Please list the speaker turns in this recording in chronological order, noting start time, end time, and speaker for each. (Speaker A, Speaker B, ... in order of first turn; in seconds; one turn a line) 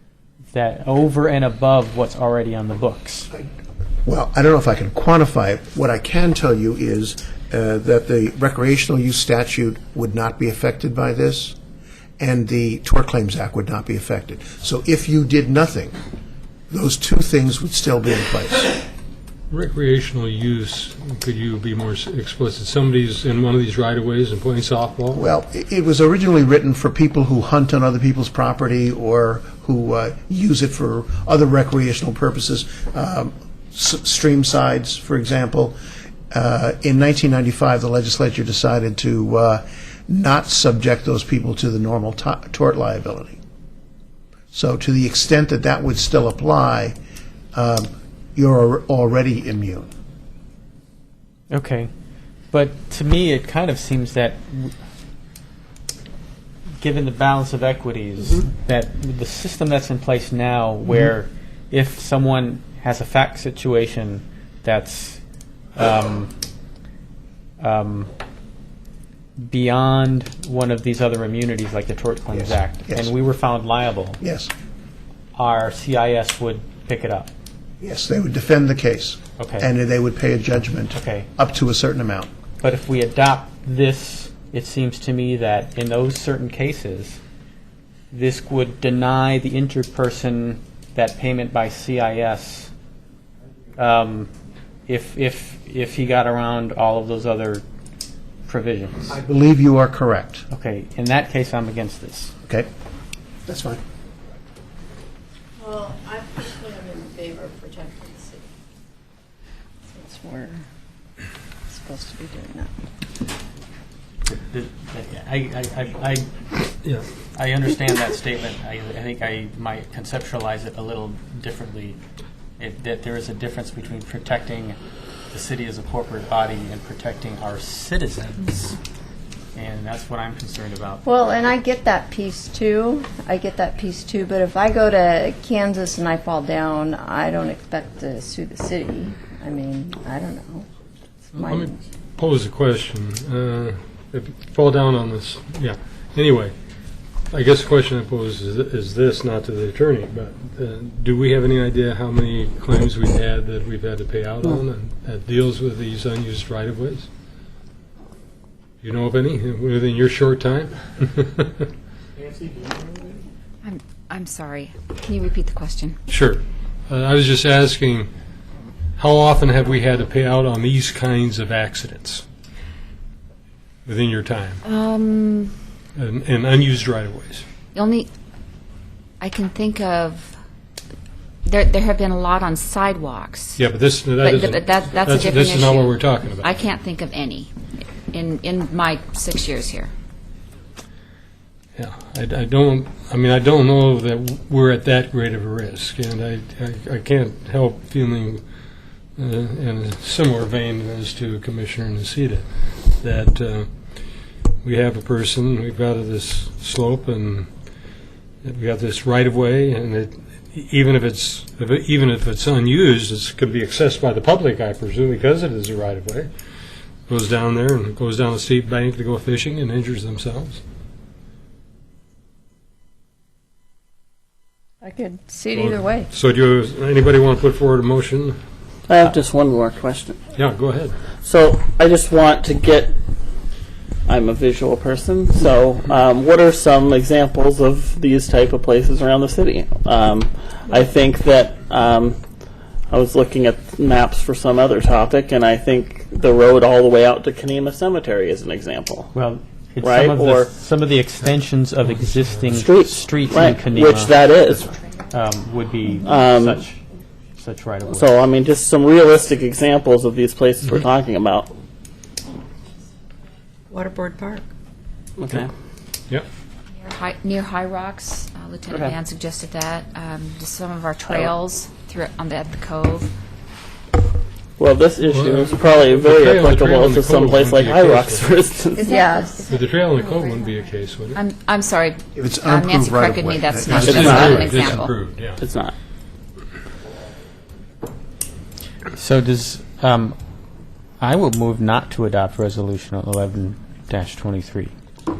Speaker A: 0.5-3.3
Speaker B: 4.0-11.6
Speaker B: 12.2-16.0
Speaker B: 16.7-18.8
Speaker C: 19.5-25.2
Speaker B: 25.1-35.8
Speaker B: 36.3-43.4
Speaker B: 44.5-47.0
Speaker B: 47.5-49.9
Speaker A: 51.5-51.9
Speaker A: 52.5-54.7
Speaker A: 56.8-65.2
Speaker A: 65.8-66.3
Speaker A: 67.6-68.1
Speaker A: 69.4-74.2
Speaker B: 74.2-74.5
Speaker A: 75.3-77.3
Speaker B: 77.8-82.3
Speaker A: 79.4-79.7
Speaker A: 80.9-81.3
Speaker A: 82.6-87.2
Speaker A: 88.1-92.7
Speaker A: 93.8-94.3
Speaker A: 94.9-97.6
Speaker A: 98.5-99.1
Speaker B: 99.1-100.5
Speaker A: 100.5-102.3
Speaker B: 103.5-103.8
Speaker D: 105.6-108.5
Speaker D: 109.9-110.6
Speaker D: 111.7-112.7
Speaker A: 114.2-116.5
Speaker A: 117.3-122.0
Speaker A: 122.6-124.8
Speaker A: 125.3-128.8
Speaker A: 129.5-131.1
Speaker D: 131.0-140.7
Speaker D: 141.3-141.7
Speaker C: 141.4-146.5
Speaker C: 147.3-157.1
Speaker C: 158.8-161.7
Speaker E: 163.6-166.0
Speaker C: 166.1-168.1
Speaker C: 168.9-172.2
Speaker C: 173.8-174.6
Speaker E: 174.6-175.5
Speaker C: 175.9-177.4
Speaker E: 177.7-178.1
Speaker E: 179.2-180.3
Speaker E: 181.4-183.6
Speaker C: 183.6-186.6
Speaker E: 184.2-187.5
Speaker E: 188.1-189.9
Speaker C: 191.8-198.4
Speaker C: 199.2-204.1
Speaker C: 204.6-207.5
Speaker C: 208.4-216.3
Speaker C: 217.1-220.6
Speaker D: 224.8-226.1
Speaker C: 225.5-228.4
Speaker F: 228.9-230.2
Speaker C: 230.3-230.9
Speaker F: 231.2-233.0
Speaker F: 234.1-242.2
Speaker F: 242.9-249.1
Speaker A: 249.1-254.2
Speaker F: 249.8-250.5
Speaker F: 252.5-254.7
Speaker A: 255.1-256.8
Speaker F: 256.0-256.6
Speaker A: 257.4-258.1
Speaker F: 257.9-261.5
Speaker D: 263.7-264.4
Speaker F: 265.2-265.5
Speaker E: 266.8-273.1
Speaker F: 268.7-268.9
Speaker F: 274.6-279.0
Speaker C: 275.0-278.4
Speaker E: 278.8-279.5
Speaker D: 278.8-280.3
Speaker C: 279.5-281.2
Speaker E: 281.1-284.9
Speaker B: 282.1-284.9
Speaker C: 283.7-285.4
Speaker F: 283.7-284.5
Speaker F: 285.4-285.7
Speaker A: 288.9-290.2
Speaker A: 291.0-294.7